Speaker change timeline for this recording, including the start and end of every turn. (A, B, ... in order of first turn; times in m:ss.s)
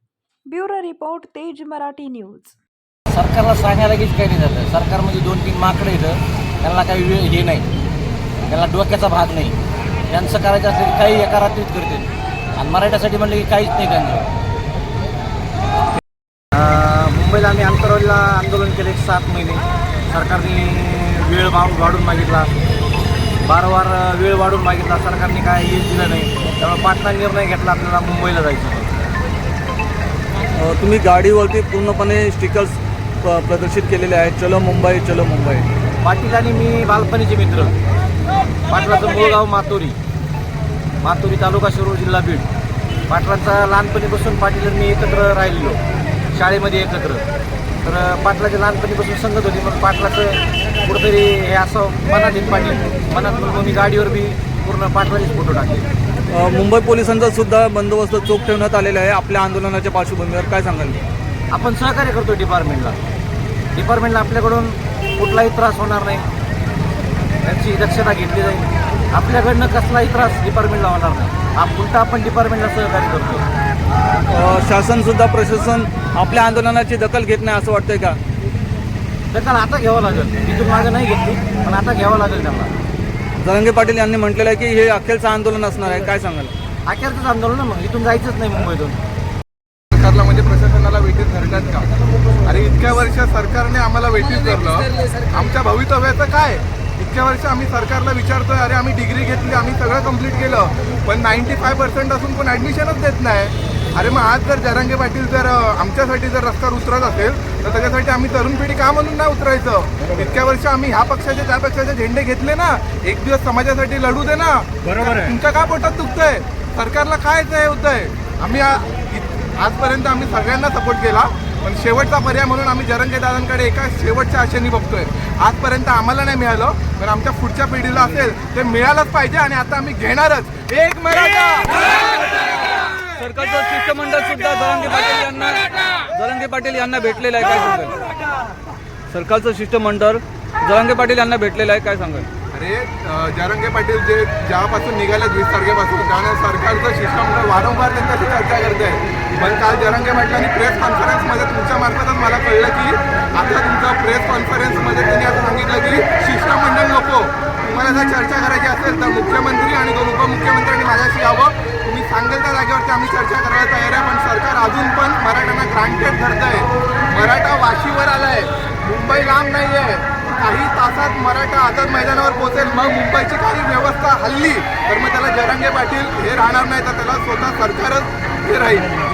0:00.5-0:02.6 A
0:03.1-0:07.7 B
0:08.5-0:09.6 B
0:10.1-0:14.3 B
0:16.5-0:22.5 B
0:23.4-0:29.0 B
0:30.6-0:35.7 C
0:36.0-0:37.8 B
0:38.7-0:40.0 B
0:41.0-0:42.5 B
0:43.1-0:45.8 B
0:46.3-0:47.2 B
0:47.8-0:55.9 B
0:56.3-1:01.0 C
1:01.5-1:03.0 B
1:03.8-1:06.3 B
1:07.4-1:13.5 B
1:14.3-1:18.2 C
1:19.3-1:22.7 B
1:23.4-1:26.5 C
1:26.9-1:29.0 B
1:29.9-1:31.9 D
1:32.4-2:11.8 D
2:13.2-2:18.0 C
2:19.1-2:22.3 C
2:22.5-2:59.0 D